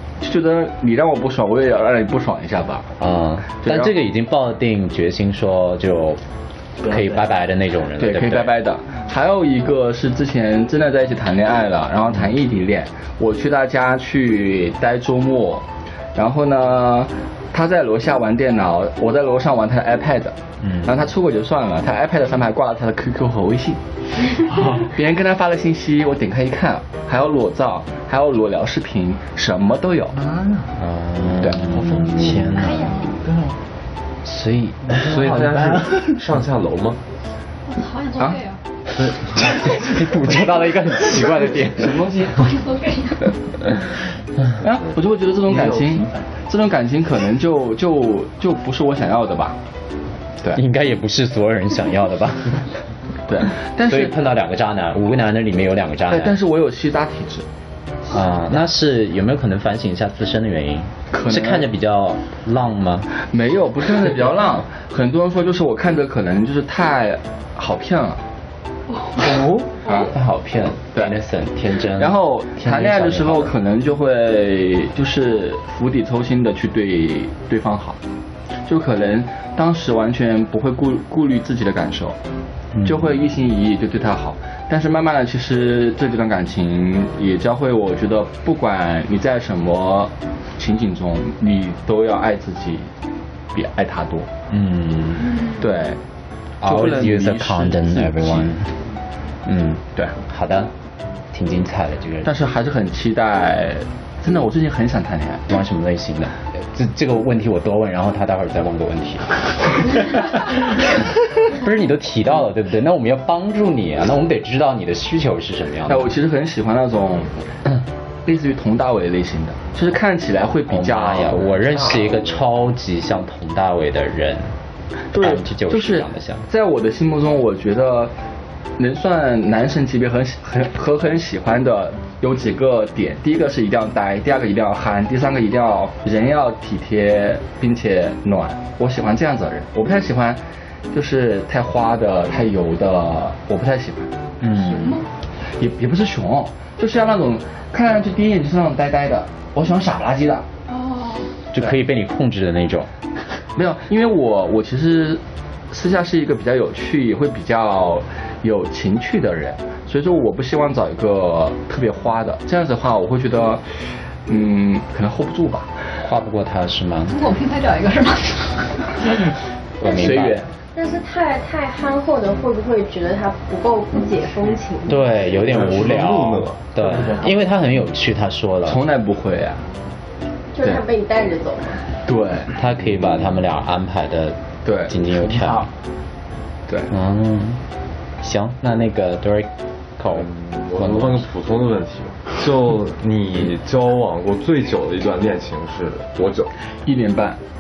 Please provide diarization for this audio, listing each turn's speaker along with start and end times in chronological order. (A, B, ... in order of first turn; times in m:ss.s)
0:00.2-0:02.9 A
0:03.0-0:06.2 B
0:03.6-0:03.9 A
0:06.8-0:07.3 C
0:06.8-0:08.5 B
0:08.0-0:30.2 A
0:20.6-0:20.9 B
0:30.1-0:30.8 C
0:30.8-0:33.1 B
0:31.4-0:31.8 A
0:31.7-0:33.6 C
0:32.5-0:33.2 D
0:34.2-0:35.4 B
0:34.9-0:36.2 C
0:35.0-0:37.0 E
0:37.7-0:38.6 D
0:39.2-0:42.0 B
0:41.8-0:42.3 A
0:42.3-0:43.3 D
0:44.6-0:49.6 A
0:45.4-0:46.4 C
0:50.5-0:52.7 B
0:53.3-0:54.1 A
0:53.9-0:56.4 B
0:56.1-0:57.5 A
0:58.1-1:03.1 B
1:01.1-1:01.7 A
1:03.2-1:08.2 A
1:08.9-1:09.4 D
1:09.7-1:10.1 A
1:10.1-1:13.5 B
1:12.0-1:18.0 A
1:18.7-1:22.2 A
1:22.8-1:23.1 B
1:22.8-1:32.9 A
1:33.5-1:34.3 A
1:34.5-1:35.4 B
1:35.2-1:35.7 D
1:35.6-1:36.0 A
1:36.6-1:38.6 A
1:36.6-1:38.7 B
1:39.4-1:40.7 B
1:41.3-1:42.3 B
1:42.2-1:45.4 A
1:45.5-1:50.9 B
1:51.5-1:56.1 B
1:55.9-1:57.3 A
1:58.2-2:01.7 A
2:00.7-2:04.6 B
2:05.1-2:08.1 A
2:05.2-2:06.4 B
2:08.8-2:24.1 A
2:24.4-2:25.0 B
2:24.6-2:25.1 D
2:25.6-2:30.5 A
2:30.7-2:31.3 D
2:31.5-2:32.9 B
2:33.6-2:43.6 A
2:44.2-2:46.0 A
2:46.0-2:47.2 B
2:47.1-2:49.0 D
2:49.8-2:50.4 B
2:49.8-2:50.5 A
2:50.8-2:55.2 F
2:54.9-2:58.8 B
2:55.4-2:56.8 E
2:56.8-2:57.4 C
2:58.7-2:59.6 A
3:00.5-3:01.8 F
3:02.1-3:02.5 A
3:02.6-3:05.7 B
3:03.0-3:03.3 E
3:04.6-3:04.9 A
3:05.0-3:05.7 C
3:06.9-3:07.6 B
3:08.2-3:11.3 B
3:10.1-3:16.5 E
3:16.8-3:17.4 A